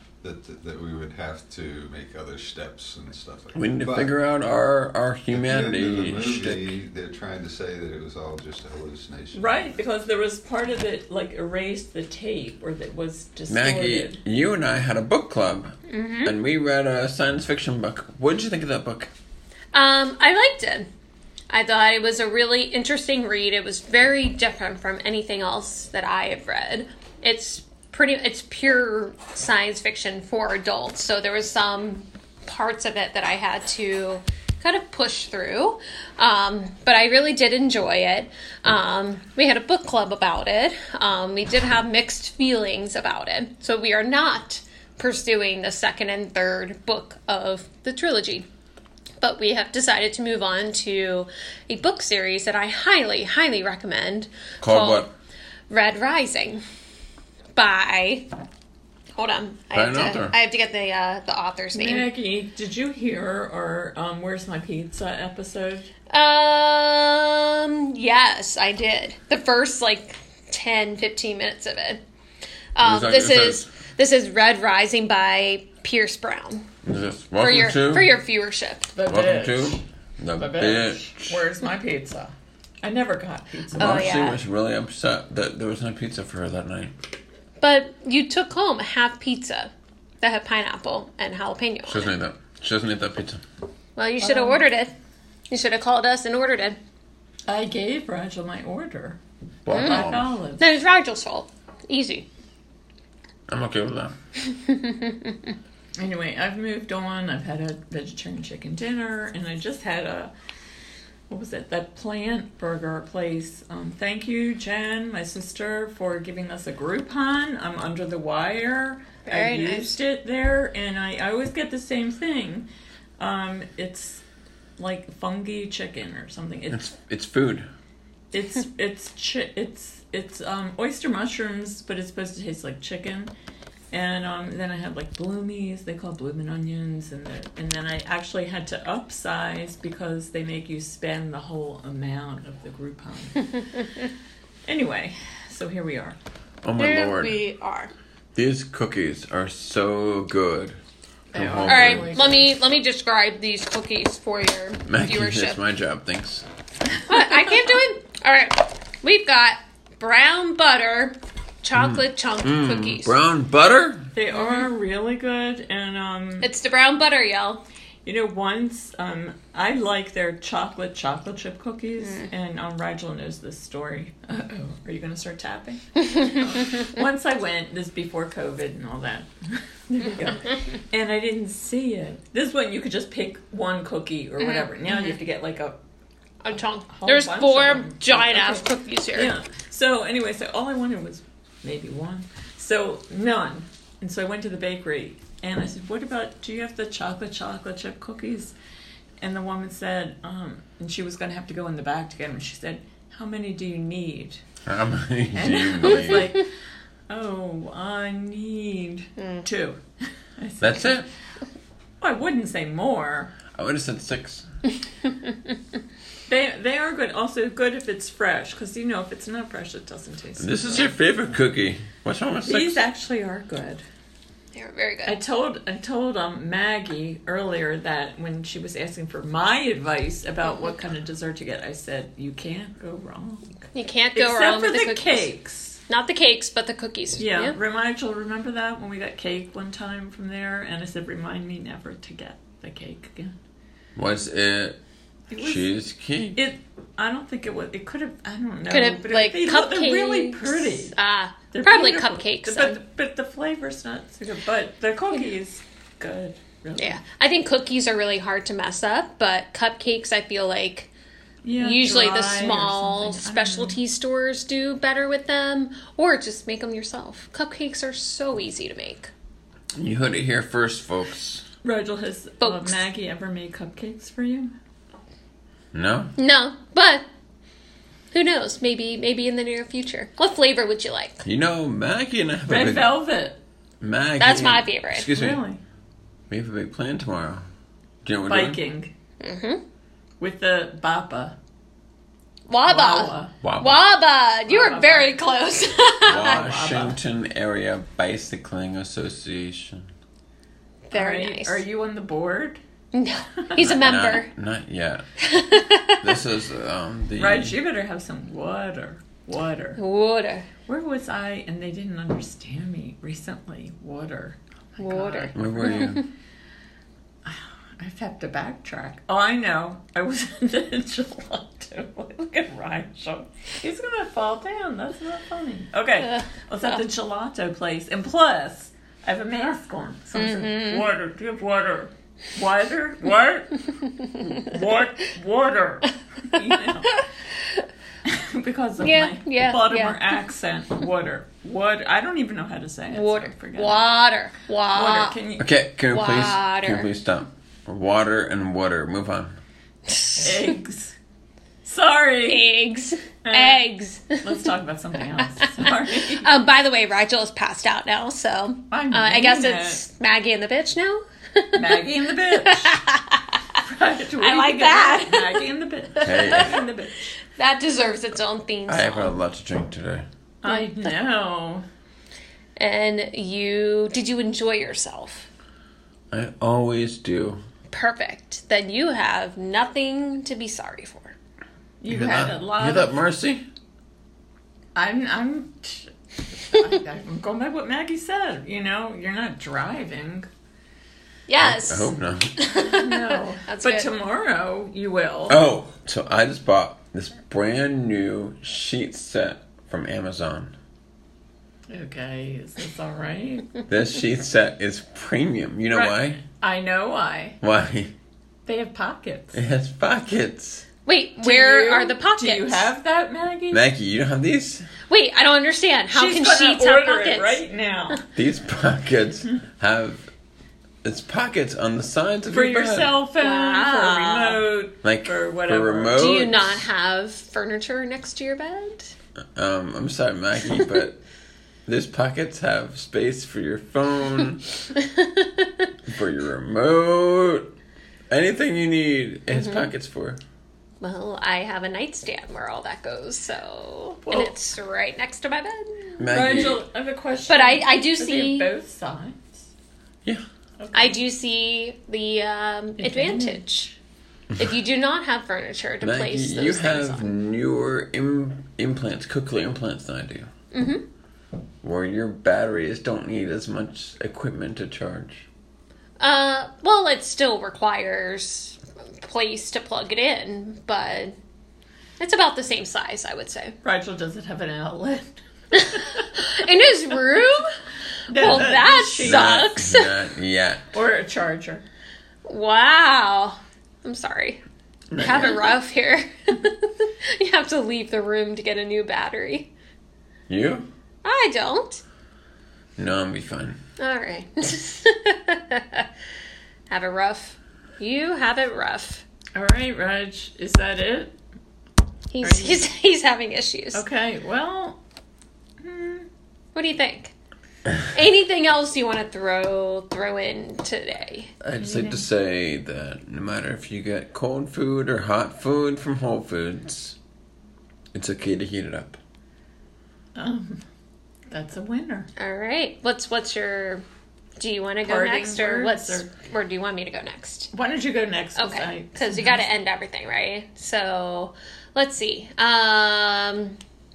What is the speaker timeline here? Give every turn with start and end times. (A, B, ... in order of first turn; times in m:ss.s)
0:00.2-0:04.1 A
0:03.5-0:06.8 B
0:05.3-0:09.8 A
0:09.3-0:14.2 C
0:13.5-0:19.1 B
0:15.9-0:16.3 D
0:19.7-0:20.9 D
0:21.5-0:48.4 D
0:49.2-0:55.1 D
0:54.6-0:55.1 B
0:55.7-0:56.6 D
0:57.5-0:58.3 D
0:59.2-1:02.0 D
0:59.7-1:00.4 B
1:01.7-1:05.9 C
1:06.1-1:12.0 D
1:12.7-1:16.6 D
1:12.8-1:13.7 B
1:16.8-1:18.1 B
1:17.4-1:18.9 D
1:18.9-1:19.8 C
1:19.1-1:21.4 B
1:20.4-1:22.3 C
1:22.8-1:24.1 C
1:23.7-1:24.4 D
1:23.8-1:26.9 B
1:27.6-1:32.1 D
1:31.9-1:33.4 B
1:34.0-1:34.9 D
1:34.2-1:34.6 C
1:35.5-1:36.8 D
1:37.5-1:39.2 C
1:39.6-1:40.4 B
1:39.7-1:42.3 D
1:39.7-1:40.6 C
1:43.5-1:44.1 B
1:44.4-1:45.5 D
1:46.0-1:50.3 C
1:51.3-2:02.7 C
1:59.2-2:00.0 D
2:03.2-2:04.2 C
2:04.8-2:06.8 C
2:06.7-2:07.7 B
2:08.3-2:13.3 C
2:13.9-2:23.8 C
2:24.6-2:26.2 C
2:26.6-2:27.4 B
2:26.8-2:27.9 D
2:28.3-2:30.8 B
2:31.3-2:32.5 C
2:31.3-2:32.1 B
2:31.6-2:35.6 D
2:34.9-2:36.4 B
2:37.0-2:43.1 D
2:41.7-2:44.1 B
2:44.1-2:46.5 C
2:46.4-2:47.6 D
2:48.0-3:05.8 C
2:52.0-2:52.3 D
2:56.1-2:56.8 D
3:06.4-3:09.3 D
3:06.9-3:18.5 C
3:19.2-3:24.4 C
3:24.6-3:26.3 B
3:25.3-3:26.5 C
3:27.1-3:29.8 C
3:29.2-3:29.5 D
3:30.4-3:31.1 C
3:30.6-3:31.1 B
3:32.0-3:33.4 C
3:33.5-3:34.4 B
3:36.3-3:40.9 C
3:40.4-3:42.8 B
3:42.4-3:43.8 C
3:44.5-3:45.2 D
3:45.0-3:53.6 C
3:53.7-3:55.3 D
3:54.1-3:55.8 C
3:55.9-3:57.5 D
3:57.2-4:03.3 C
4:04.0-4:04.8 B
4:05.3-4:05.7 C
4:05.4-4:06.4 B
4:06.3-4:10.9 C
4:08.7-4:12.8 D
4:11.5-4:17.0 C
4:16.8-4:20.9 D
4:21.4-4:23.8 C
4:21.6-4:29.1 D
4:29.7-4:31.4 B
4:31.6-4:34.5 C
4:32.4-4:32.8 D
4:35.7-4:36.1 B
4:36.2-4:37.0 D
4:38.1-4:41.2 D
4:41.2-4:43.0 B
4:42.5-4:43.4 C
4:43.8-4:45.4 B
4:44.2-4:45.1 D
4:45.1-4:45.6 C
4:46.3-4:47.4 B
4:48.0-4:48.6 B
4:48.3-4:48.9 C
4:49.2-4:49.6 D
4:50.2-4:51.3 C
4:52.5-4:56.4 D
4:52.7-4:53.3 C
4:53.4-4:53.8 B
4:54.5-4:55.2 C
4:56.0-4:57.0 C
4:56.1-4:59.9 B
5:00.9-5:01.6 D
5:00.9-5:02.6 C
5:02.9-5:04.3 D
5:03.6-5:05.0 B
5:05.2-5:06.1 D
5:06.0-5:07.6 B
5:07.2-5:09.8 C
5:09.8-5:10.4 D
5:10.7-5:15.9 C
5:14.8-5:16.0 D
5:15.3-5:16.0 B
5:17.2-5:33.6 C
5:30.1-5:30.8 D
5:34.0-5:34.4 D
5:34.2-5:37.0 C
5:38.0-5:43.8 C
5:38.8-5:40.0 D
5:42.9-5:45.2 D
5:44.7-5:45.5 C
5:45.4-5:49.4 B
5:45.9-5:46.9 D
5:49.9-5:50.4 D
5:50.2-5:51.0 C
5:51.6-5:52.4 C
5:52.2-5:54.3 D
5:53.2-5:56.4 C
5:55.6-6:01.8 D
5:58.7-5:59.8 C
6:01.5-6:02.8 C
6:02.4-6:03.4 D
6:03.6-6:07.1 C
6:04.2-6:05.4 D
6:06.0-6:06.4 D
6:06.0-6:06.6 B
6:07.3-6:09.1 D
6:08.7-6:10.0 B
6:10.4-6:11.6 C
6:12.6-6:15.3 D
6:16.1-6:17.4 B
6:17.7-6:21.2 D
6:21.8-6:22.9 C
6:21.9-6:23.4 B
6:24.7-6:30.3 C
6:31.3-6:33.9 D
6:31.4-6:32.3 B
6:32.5-6:35.4 C
6:35.3-6:40.5 B
6:41.7-6:43.6 C
6:43.7-6:46.2 B
6:45.7-6:47.4 C
6:47.4-6:47.9 B
6:48.4-6:49.4 C
6:49.3-6:50.6 B
6:50.8-6:52.7 D
6:51.2-6:53.6 C
6:53.5-6:54.7 B
6:54.9-6:57.4 D
6:55.9-6:58.0 C
6:58.1-7:00.1 B
7:00.8-7:02.9 B
7:02.3-7:06.2 C
7:03.2-7:04.4 D
7:04.8-7:06.5 B
7:06.0-7:08.9 D
7:09.3-7:11.0 B
7:11.6-7:14.5 B
7:14.8-7:15.6 D
7:15.9-7:17.5 B
7:18.1-7:20.2 B
7:19.3-7:19.7 D
7:20.8-7:26.0 D
7:24.0-7:24.3 C
7:26.0-7:26.6 B
7:26.1-7:29.5 C
7:27.3-7:28.5 D
7:30.6-7:31.0 C
7:30.7-7:33.7 D
7:32.8-7:33.7 C
7:34.4-7:37.1 D
7:35.8-7:40.3 B
7:40.5-7:40.8 D
7:41.6-7:45.2 B
7:46.0-7:51.2 D
7:52.0-7:53.5 D
7:53.6-7:56.1 C
7:55.5-7:57.5 D
7:58.1-7:59.4 C
7:58.1-7:59.9 D
7:58.2-7:58.5 B
7:59.0-8:00.7 B
8:00.7-8:01.6 C
8:02.2-8:04.4 D
8:04.9-8:05.5 B
8:05.0-8:09.5 D
8:10.3-8:10.7 B
8:11.0-8:11.8 D
8:12.8-8:13.6 B
8:13.8-8:15.9 D
8:16.7-8:19.0 D
8:19.3-8:21.1 C
8:22.1-8:23.8 D
8:22.2-8:22.6 C
8:23.7-8:24.8 C
8:25.6-8:26.1 C
8:26.5-8:27.1 D
8:27.8-8:31.3 D
8:31.4-8:37.0 B
8:31.6-8:32.0 C
8:37.9-8:39.0 B
8:40.1-8:40.6 C
8:41.3-8:42.1 C
8:42.2-8:43.8 D
8:44.4-8:47.5 D
8:44.8-8:46.1 C
8:47.5-8:49.5 C
8:48.4-8:53.6 D